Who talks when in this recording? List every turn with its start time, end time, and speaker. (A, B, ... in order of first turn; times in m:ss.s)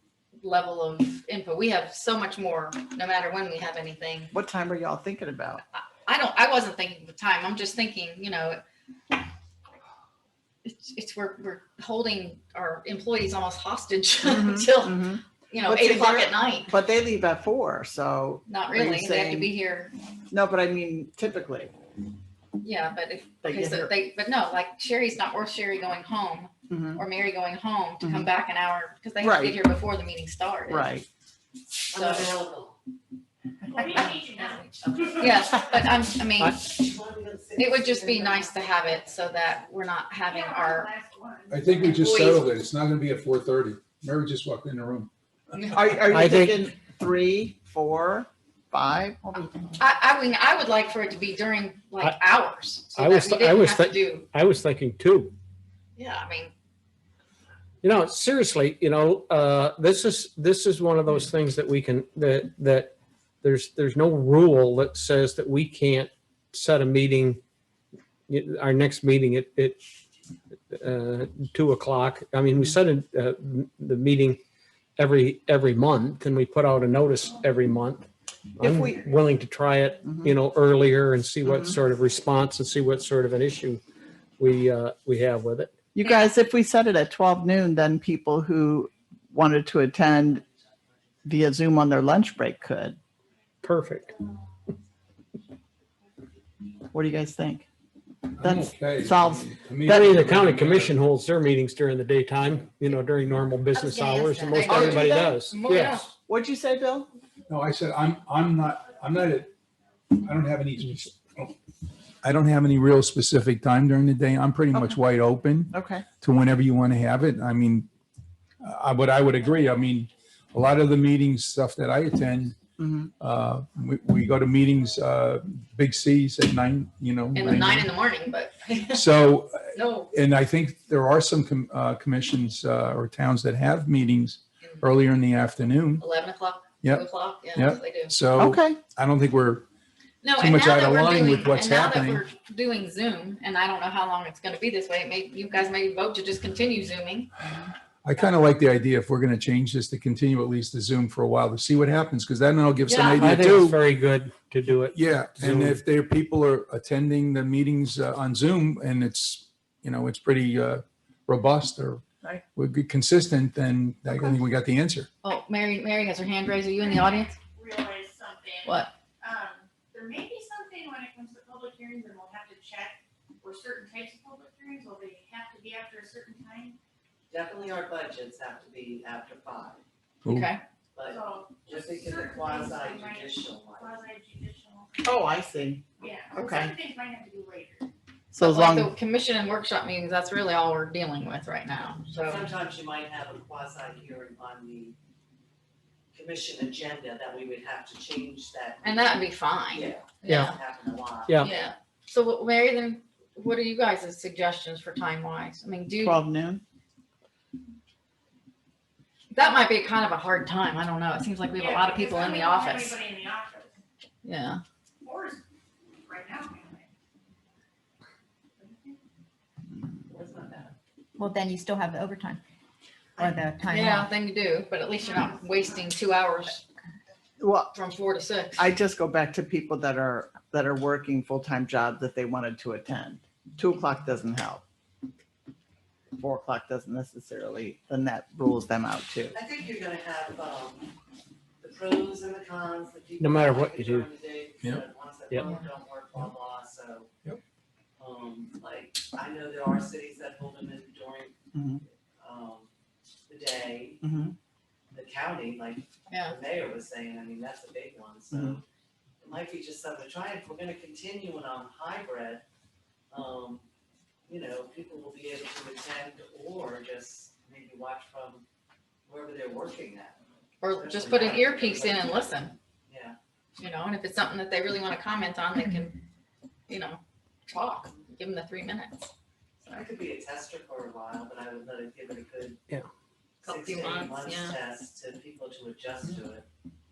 0:00.4-0:04.3 A
0:04.3-0:05.6 B
0:05.7-0:08.6 A
0:10.6-0:16.7 A
0:14.2-0:19.5 B
0:18.5-0:19.9 A
0:20.3-0:21.7 B
0:22.6-0:30.9 A
0:23.4-0:23.9 B
0:26.7-0:27.0 B
0:28.0-0:28.3 B
0:29.2-0:29.6 B
0:30.7-0:31.1 B
0:31.9-0:32.4 A
0:31.9-0:32.8 C
0:33.7-0:34.6 D
0:33.7-0:35.8 C
0:33.8-0:36.8 A
0:36.4-0:36.7 E
0:36.6-0:39.6 C
0:37.6-0:40.9 A
0:40.2-0:41.6 D
0:41.5-0:45.8 F
0:41.7-0:42.5 A
0:45.7-0:49.4 B
0:46.0-0:46.7 E
0:49.2-0:49.7 G
0:49.8-0:54.3 A
0:52.9-0:55.3 E
0:56.0-0:56.5 A
0:57.8-1:07.4 E
1:08.3-1:09.8 E
1:10.7-1:14.4 E
1:15.0-1:23.8 E
1:18.6-1:19.1 B
1:20.0-1:20.4 B
1:21.4-1:21.8 B
1:24.4-1:25.7 E
1:25.9-1:30.4 B
1:31.2-1:33.0 B
1:33.6-1:34.1 E
1:36.9-1:37.6 B
1:38.4-1:40.9 F
1:38.4-1:40.2 B
1:39.8-1:46.1 E
1:43.7-1:46.1 A
1:44.7-1:45.4 B
1:46.3-1:47.1 B
1:47.5-1:49.5 F
1:49.1-1:49.4 D
1:50.2-1:51.5 F
1:52.2-1:57.9 F
1:55.7-1:56.0 B
1:58.6-2:02.6 F
2:02.8-2:03.1 B
2:03.2-2:07.9 F
2:07.3-2:09.1 A
2:08.9-2:16.0 F
2:09.7-2:10.1 A
2:14.6-2:14.9 A
2:16.0-2:18.1 A
2:16.8-2:19.6 F
2:18.4-2:18.8 B
2:20.2-2:27.3 A
2:20.4-2:22.2 F
2:28.0-2:33.8 F
2:28.2-2:28.4 A
2:32.9-2:33.4 A
2:33.2-2:35.8 E
2:34.9-2:45.1 F
2:45.2-2:47.3 A
2:46.8-2:56.8 D
2:48.6-2:48.9 A
2:57.3-2:59.8 C
3:00.2-3:00.5 F
3:00.3-3:00.6 A
3:00.9-3:04.1 C
3:01.0-3:05.2 D
3:05.0-3:06.8 B
3:06.0-3:07.9 D
3:08.3-3:08.9 B
3:08.4-3:12.5 A
3:12.2-3:15.0 C
3:16.1-3:21.6 C
3:18.8-3:20.5 A
3:20.2-3:20.5 E
3:21.4-3:26.2 A
3:26.0-3:26.6 B
3:29.3-3:33.0 A
3:31.5-3:33.8 D
3:34.2-3:34.6 A
3:35.0-3:35.4 D
3:36.0-3:36.9 D
3:38.6-3:39.0 D
3:40.0-3:40.7 C
3:41.2-3:42.4 G
3:43.2-3:44.1 G
3:43.6-3:46.6 A
3:44.9-3:45.8 D
3:47.4-3:47.7 B
3:47.7-3:48.7 A
3:48.6-3:54.6 B
3:56.2-3:59.3 B
3:59.3-4:00.9 C
4:01.6-4:07.1 C
4:03.2-4:04.1 E
4:08.0-4:11.3 C
4:11.5-4:11.8 B
4:12.2-4:12.7 C
4:13.3-4:14.0 C
4:14.0-4:14.3 B
4:14.9-4:18.6 C
4:16.1-4:16.3 A
4:18.3-4:18.6 B
4:19.2-4:22.4 C
4:23.1-4:23.6 C
4:24.3-4:28.4 C
4:29.0-4:30.2 C
4:30.6-4:32.5 A
4:30.7-4:33.2 C
4:33.6-4:36.0 A
4:36.7-4:39.1 A
4:39.6-4:42.6 C
4:43.4-4:46.4 C
4:43.4-4:44.6 A